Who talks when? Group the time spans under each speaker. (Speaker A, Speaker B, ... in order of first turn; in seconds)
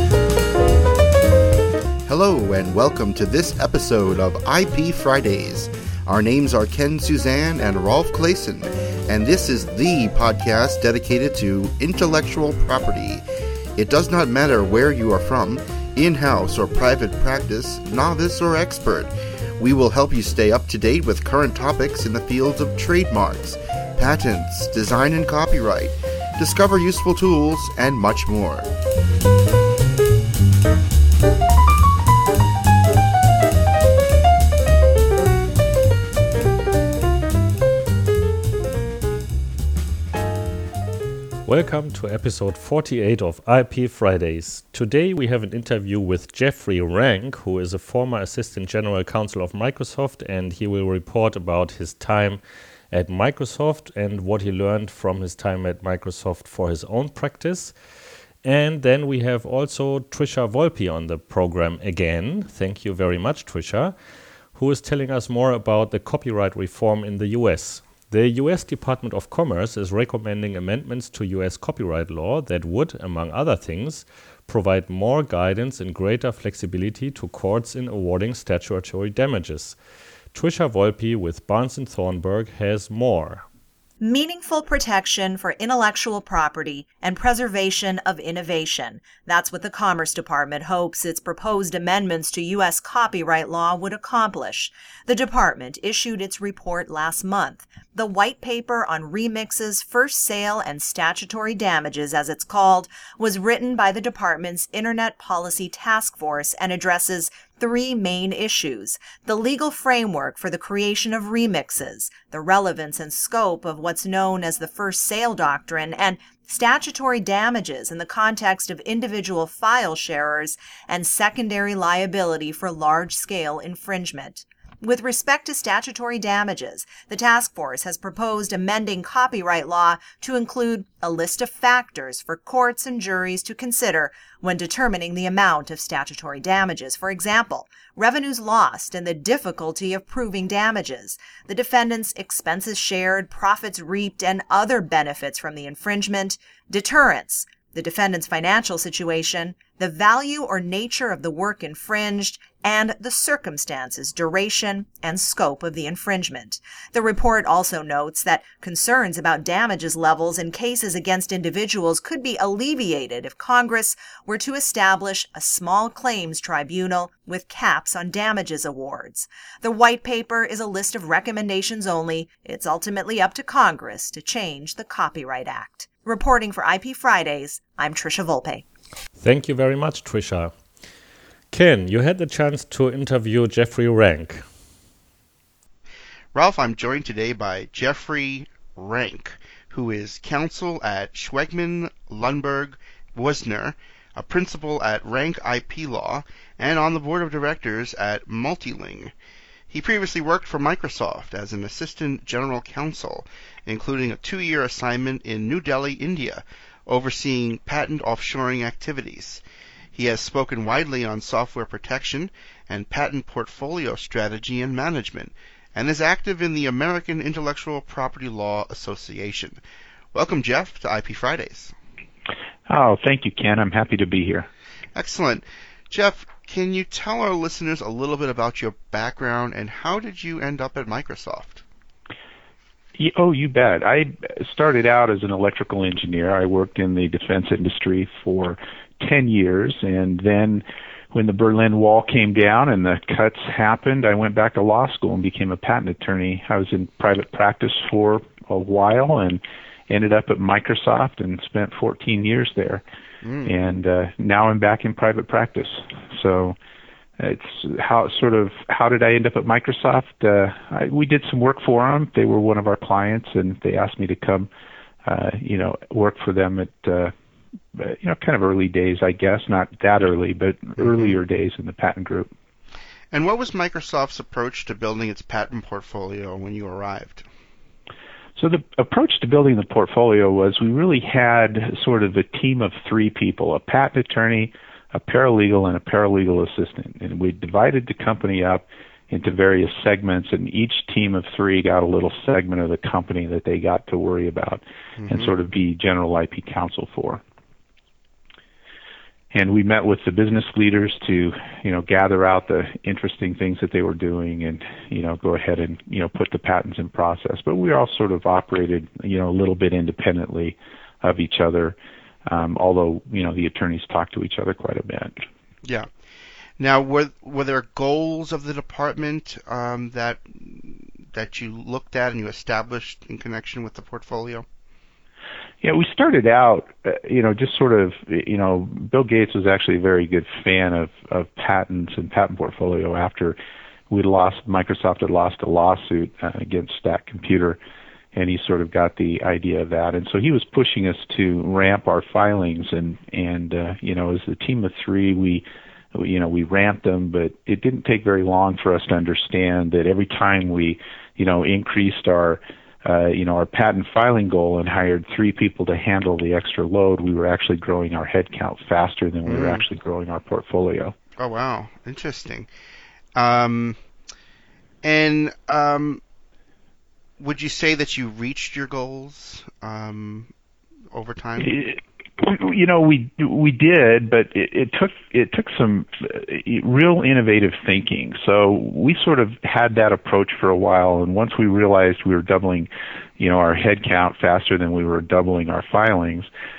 Speaker A: 2.1-13.2, 13.8-28.7, 186.3-199.1, 199.7-209.4, 209.9-219.6, 220.1-221.7, 224.9-231.6, 253.2-253.5, 273.1-277.2, 295.0-295.3, 316.6-317.0, 317.7-319.2, 319.7-320.0, 361.4-361.9, 363.1-363.7, 364.8-366.0, 367.2-369.9, 370.9-371.5
Speaker B: 41.5-57.8, 58.4-64.0, 64.5-79.8, 80.3-83.5, 179.2-180.5, 181.5-184.5
Speaker C: 84.0-178.7
Speaker D: 222.7-224.5, 233.0-252.8, 253.4-256.6, 257.2-264.5, 265.1-267.1, 267.8-272.3, 278.4-297.2, 299.3-315.1, 325.6-333.4, 333.9-337.6, 338.1-360.9, 371.4-386.3
Speaker E: 316.8-318.3, 319.1-324.4, 361.2-362.5, 369.1-370.3